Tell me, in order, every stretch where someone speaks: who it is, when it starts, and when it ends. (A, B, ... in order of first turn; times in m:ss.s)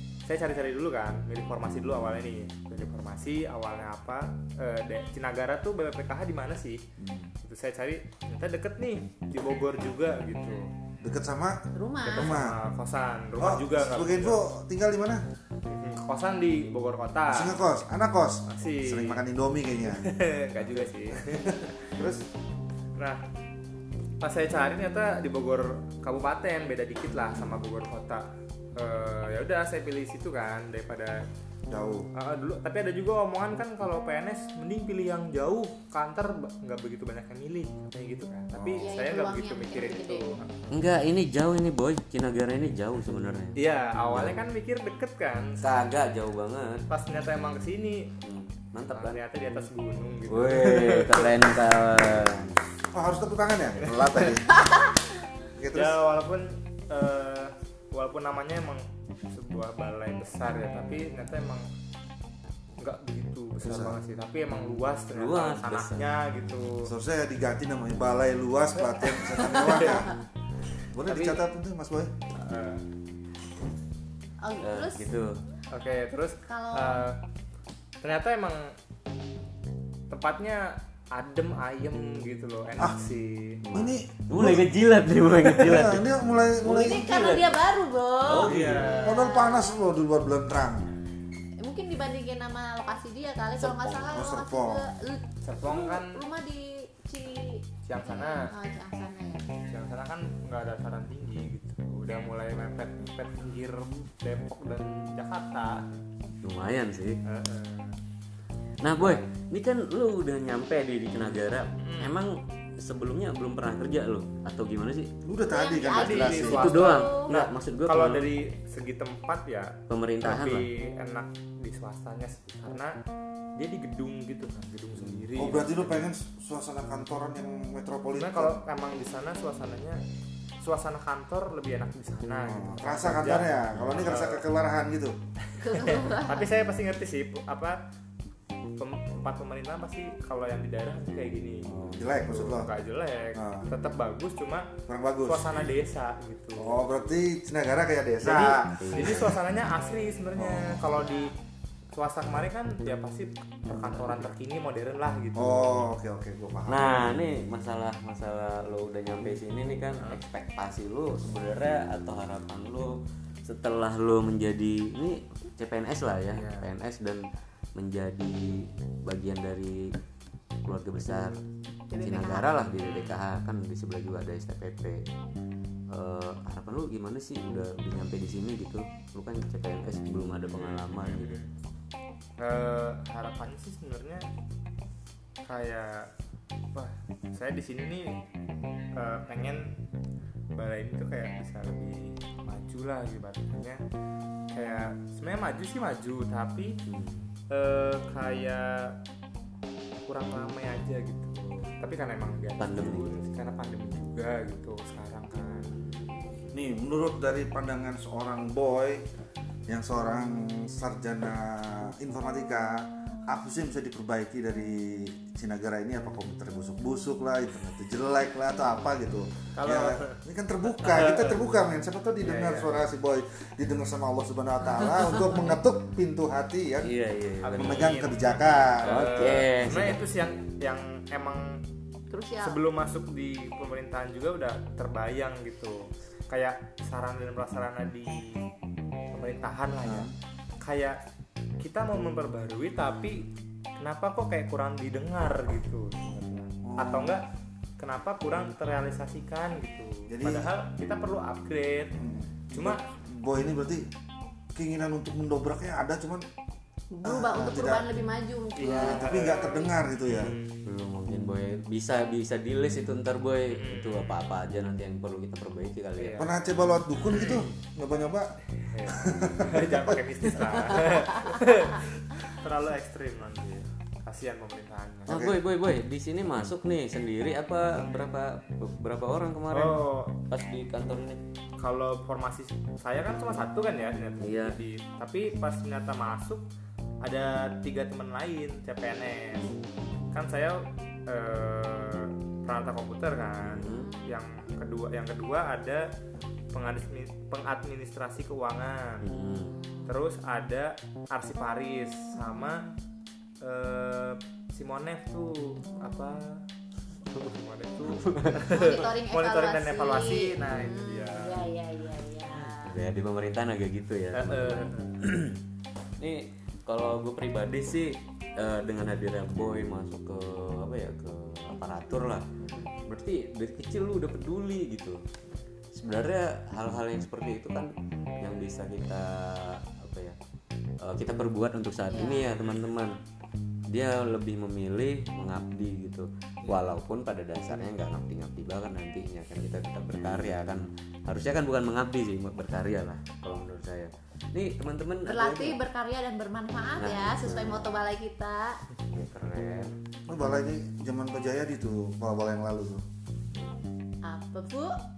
0:00.2-0:06.8 A
0:07.0-0:07.3 B
0:07.4-0:10.7 A
0:11.0-0:11.6 B
0:11.7-0:12.4 C
0:12.0-0:14.4 A
0:12.1-0:12.6 B
0:13.4-0:15.2 B
0:15.6-0:17.6 A
0:17.3-0:20.1 B
0:18.5-0:19.2 A
0:19.8-0:22.1 A
0:22.0-0:22.2 B
0:23.0-0:23.2 A
0:24.2-0:31.2 A
0:31.7-0:32.1 B
0:32.1-0:40.8 A
0:38.5-0:38.9 B
0:38.7-0:40.2 C
0:40.7-0:43.6 D
0:43.6-0:45.7 A
0:44.1-0:44.4 D
0:45.6-0:46.9 D
0:46.9-0:48.1 A
0:48.2-0:49.2 D
0:48.9-0:51.6 A
0:50.3-0:52.6 D
0:52.9-0:54.6 B
0:53.7-0:54.4 A
0:54.6-0:54.9 C
0:55.6-0:56.0 B
0:55.7-1:01.6 A
1:02.8-1:06.9 A
1:03.6-1:04.0 B
1:05.1-1:06.2 D
1:06.8-1:10.1 B
1:10.9-1:12.1 B
1:11.1-1:11.4 A
1:12.3-1:12.8 A
1:14.4-1:15.1 C
1:14.6-1:15.4 D
1:15.7-1:17.2 A
1:16.4-1:17.1 C
1:18.0-1:18.7 A
1:20.1-1:23.6 A
1:23.6-1:27.4 D
1:23.7-1:24.7 B
1:25.4-1:27.5 B
1:26.7-1:29.8 C
1:28.2-1:29.2 D
1:28.4-1:29.2 A
1:28.5-1:30.9 B
1:31.6-1:39.5 C
1:33.6-1:34.1 D
1:34.1-1:34.8 B
1:35.4-1:36.2 A
1:37.8-1:38.5 A
1:39.6-1:45.9 A
1:46.4-1:47.2 D
1:47.2-1:48.0 A
1:48.8-1:55.1 D
1:49.0-1:49.2 A
1:51.8-1:52.2 A
1:55.2-1:56.7 B
1:55.5-1:57.4 C
1:55.9-2:03.0 A
1:56.5-1:58.4 D
1:59.9-2:00.7 D
2:03.6-2:06.1 A
2:05.4-2:08.6 B
2:08.2-2:10.0 A
2:10.6-2:14.5 A
2:12.4-2:15.1 B
2:15.6-2:16.5 C
2:15.6-2:17.8 A
2:18.8-2:24.7 A
2:21.6-2:22.7 B
2:23.3-2:23.7 B
2:24.9-2:25.7 B
2:25.2-2:27.0 A
2:26.6-2:28.8 B
2:28.2-2:29.4 D
2:28.4-2:31.3 A
2:30.4-2:31.0 B
2:31.0-2:31.3 C
2:32.0-2:35.9 A
2:33.7-2:34.2 D
2:35.4-2:37.2 B
2:36.7-2:49.9 D
2:39.9-2:40.2 A
2:46.3-2:46.7 A
2:50.6-2:51.4 D
2:51.9-2:52.7 C
2:52.0-2:55.0 D
2:52.8-2:53.2 A
2:55.9-3:01.4 D
3:00.5-3:01.5 A
3:02.4-3:04.2 A
3:05.5-3:06.1 A
3:06.7-3:08.2 A
3:09.0-3:09.7 A
3:10.6-3:13.8 A
3:14.5-3:16.8 A
3:16.9-3:17.3 D
3:17.5-3:19.0 A
3:20.1-3:25.8 A
3:22.6-3:23.1 D
3:25.6-3:26.5 D
3:26.5-3:29.1 B
3:29.7-3:46.9 B
3:39.6-3:41.4 A
3:42.2-3:42.9 A
3:46.8-3:48.0 D
3:47.4-3:51.6 A
3:47.6-3:49.2 B
3:48.8-3:50.1 D
3:52.1-3:52.6 C
3:52.4-3:58.4 A
3:59.1-4:01.0 A
3:59.8-4:00.1 B
4:01.6-4:07.2 A
4:06.6-4:07.2 B
4:07.8-4:12.0 A
4:10.1-4:10.5 B
4:12.0-4:13.9 B
4:12.5-4:12.8 A
4:14.6-4:16.2 B
4:16.9-4:19.0 C
4:17.0-4:17.9 B
4:18.6-4:20.7 A
4:18.6-4:20.4 B
4:20.6-4:26.2 D
4:23.5-4:24.2 A
4:26.0-4:26.3 A
4:26.2-4:28.3 B
4:27.0-4:27.6 A
4:28.6-4:35.2 A
4:28.9-4:30.5 B
4:35.1-4:41.2 D
4:35.1-4:35.4 B
4:39.5-4:40.2 A
4:41.6-4:46.5 A
4:44.2-4:44.6 D
4:47.0-4:49.5 A
4:50.1-4:55.9 A
4:53.4-4:53.9 D
4:53.6-4:54.1 C
4:56.5-4:59.0 A
4:59.0-4:59.6 D
4:59.3-5:00.0 C
4:59.9-5:02.7 A
5:02.2-5:02.5 C
5:03.4-5:06.4 A
5:07.1-5:11.5 A
5:07.8-5:08.9 D
5:08.4-5:12.8 C
5:12.3-5:15.4 D
5:14.1-5:15.0 A
5:16.0-5:22.3 D
5:22.4-5:22.8 C
5:22.8-5:25.0 D
5:25.8-5:27.7 D
5:28.2-5:30.2 D
5:30.8-5:33.0 D
5:31.9-5:32.3 C
5:32.3-5:32.8 A
5:33.7-5:45.6 D
5:36.4-5:36.7 A
5:45.0-5:48.6 C
5:46.8-5:47.8 D
5:48.9-5:49.7 D
5:50.1-5:52.8 B
5:54.0-5:54.8 C